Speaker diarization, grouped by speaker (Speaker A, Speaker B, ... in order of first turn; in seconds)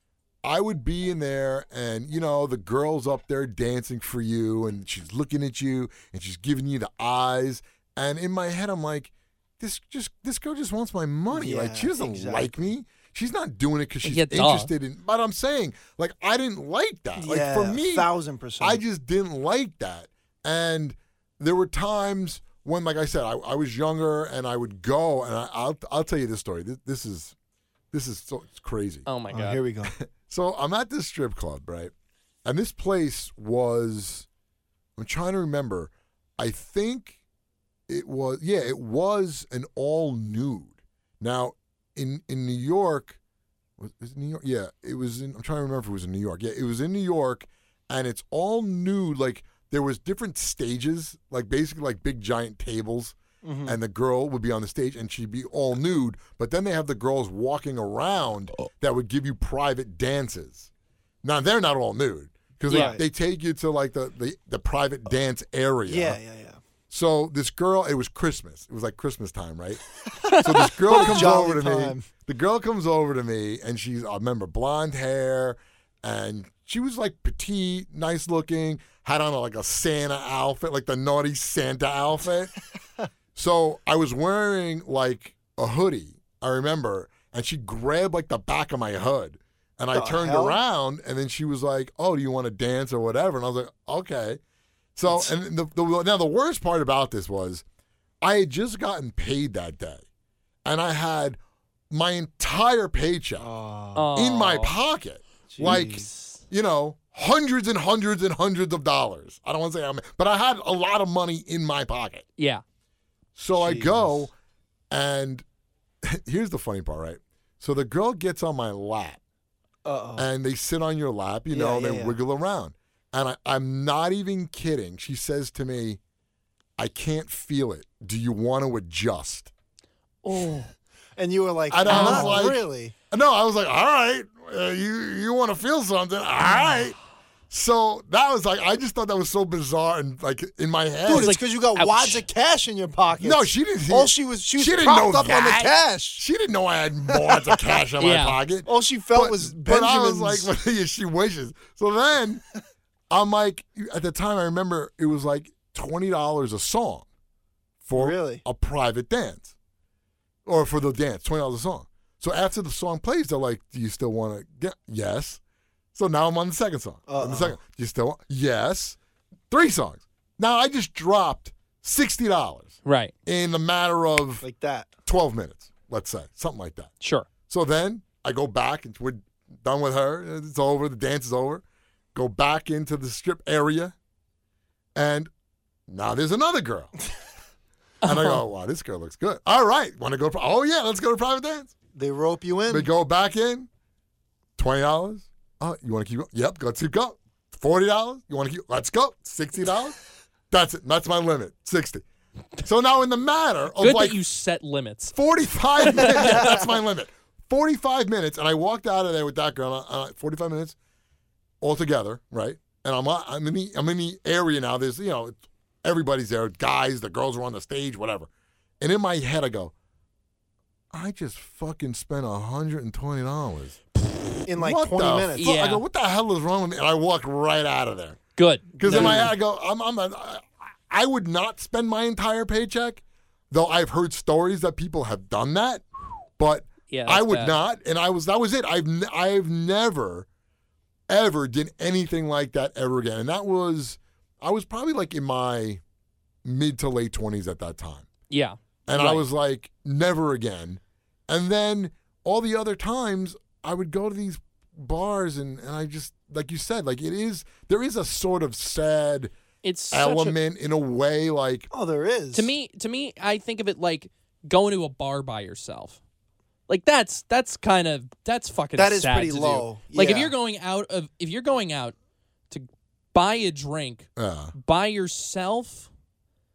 Speaker A: 0.4-27.3, 27.9-29.1, 29.9-31.9, 32.4-34.3, 35.0-37.2, 37.9-43.2, 43.8-60.7, 61.2-66.2, 66.9-82.5, 83.3-94.4, 95.0-97.6, 98.2-100.0, 100.6-101.4, 101.9-103.5, 104.1-112.2, 113.3-114.3, 114.9-115.4, 116.0-119.2, 120.2-126.0, 126.8-129.5, 131.7-136.9, 137.5-141.4, 143.2-152.4, 153.1-157.1, 157.8-159.5, 160.4-165.4, 165.9-169.0, 169.5-174.4, 175.1-176.9, 177.5-181.6, 182.1-183.9, 184.9-185.3, 185.9-186.9, 188.0-191.7, 192.7-193.7, 194.6-200.0, 200.5-202.0, 202.6-204.2, 205.1-210.8, 211.6-218.3, 218.8-219.7, 220.9-223.8, 224.5-228.2, 228.8-240.3, 241.1-245.8, 246.4-248.1, 248.9-259.3, 259.9-261.7, 274.1-274.5
Speaker B: 11.3-12.7, 17.1-18.8, 29.3-29.9, 53.4-53.8, 62.7-63.0, 65.9-66.6, 70.8-72.1, 89.9-90.6, 103.4-104.0, 105.5-106.1, 113.6-114.1, 119.8-120.2, 121.5-122.2, 131.2-132.9, 141.1-146.2, 147.1-147.6, 148.7-150.5, 157.9-158.4, 167.1-167.6, 174.4-174.9, 191.9-192.9, 206.0-206.7, 224.5-225.5, 228.8-229.3, 261.7-262.5, 268.8-270.3
Speaker C: 14.0-14.7, 29.1-29.6, 62.7-63.0, 70.3-71.2, 103.9-104.8, 112.4-112.6, 130.2-130.7, 131.8-132.4, 141.1-142.2, 148.0-148.4, 172.8-173.1, 177.0-177.3, 188.0-188.4, 203.8-205.2, 205.8-206.5, 225.4-225.8, 228.3-229.3, 236.9-237.6, 248.3-249.2, 259.6-260.4, 262.3-266.0, 266.7-271.9, 272.5-275.9